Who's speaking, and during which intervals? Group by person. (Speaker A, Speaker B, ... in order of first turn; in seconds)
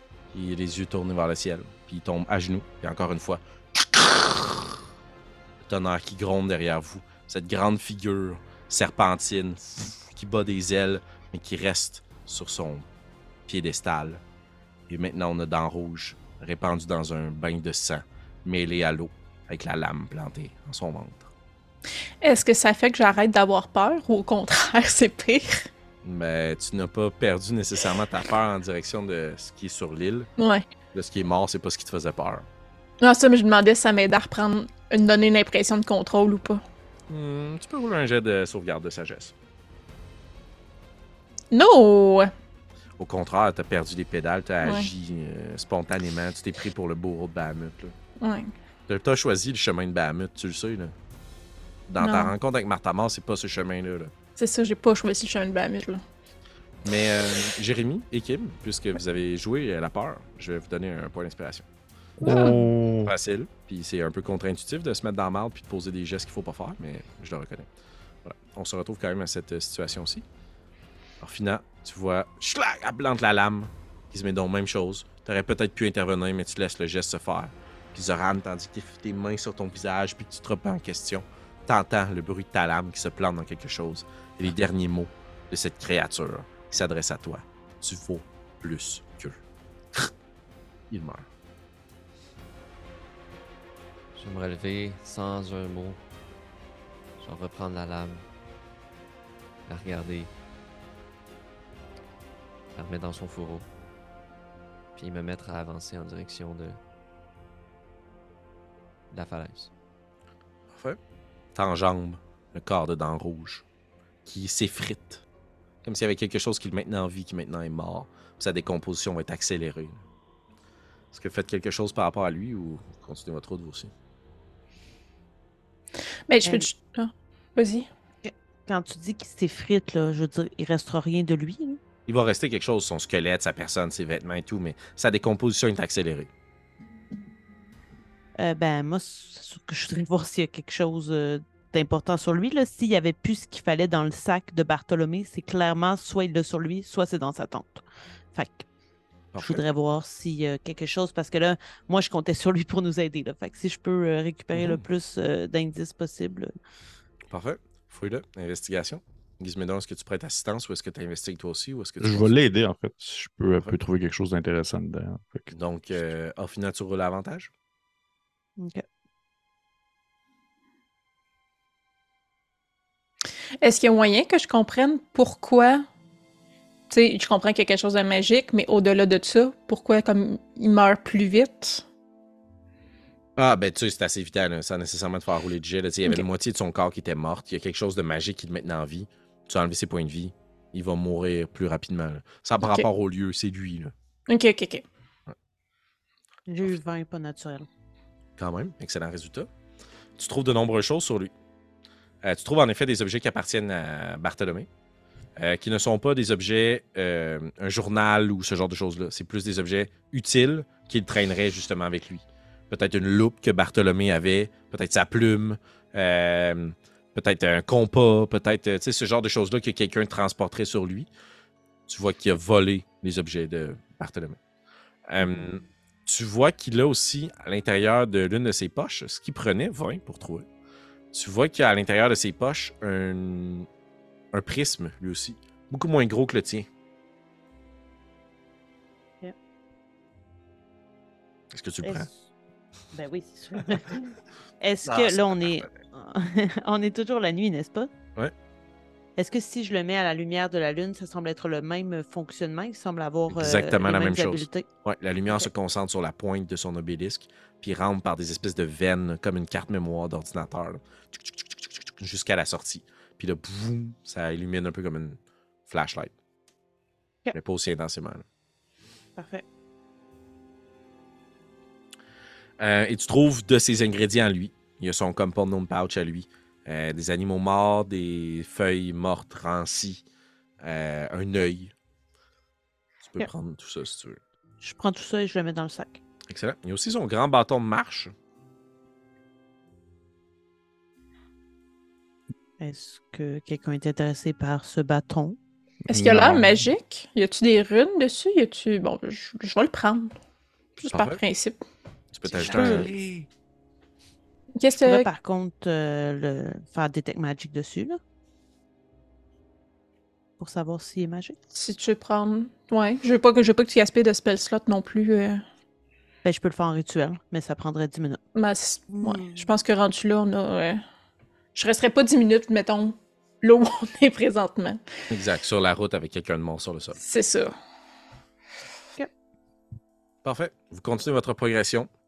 Speaker A: 0.3-4.6, 5.7-12.9, 13.5-14.2, 14.9-21.3, 26.0-30.3, 30.9-32.5, 37.1-39.3, 43.0-47.9, 48.9-50.9, 51.9-54.1, 56.9-61.6, 63.0-67.7, 68.2-70.2, 71.2-89.4, 90.9-91.2, 111.5-113.6, 114.2-115.2, 115.8-120.0, 121.1-123.9, 132.1-136.3, 149.3-149.7, 157.3-162.3, 165.5-167.5, 183.4-193.9, 198.4-199.5, 200.2-201.3, 202.2-204.7, 205.4-221.1, 221.9-224.4, 225.1-230.4, 231.1-233.7, 234.3-236.7, 241.5-242.1, 244.8-245.7, 253.3-266.1, 267.3-268.2, 272.6-280.0, 280.6-281.7, 283.0-284.2, 286.3-288.1, 300.9-301.2, 302.1-302.9, 325.1-327.0, 330.2-331.9
Speaker B: 22.2-25.7, 30.4-30.7, 33.0-36.6, 41.5-42.3, 44.6-44.9, 48.2-48.5, 52.0-52.3, 54.4-56.0, 62.2-62.7, 126.3-127.9, 173.6-175.9, 176.9-181.8, 194.3-194.8, 295.9-300.1, 300.8-301.6, 304.6-305.1, 311.6-315.4, 318.4-320.8, 321.6-324.8, 327.0-327.6
Speaker C: 62.2-63.1, 162.0-165.5, 295.9-296.6
Speaker D: 94.1-96.0, 97.2-98.2, 99.7-100.3, 102.8-103.7, 105.0-106.8, 109.1-109.7, 302.3-303.3
Speaker E: 128.2-131.8, 138.4-148.7, 149.4-156.5, 168.6-168.8, 196.5-197.7, 241.8-242.3, 242.9-247.9, 249.2-254.7, 269.2-269.4, 284.6-286.0, 292.6-295.4, 302.5-302.9, 304.8-308.0, 310.4-311.4, 316.2-318.2, 318.9-319.5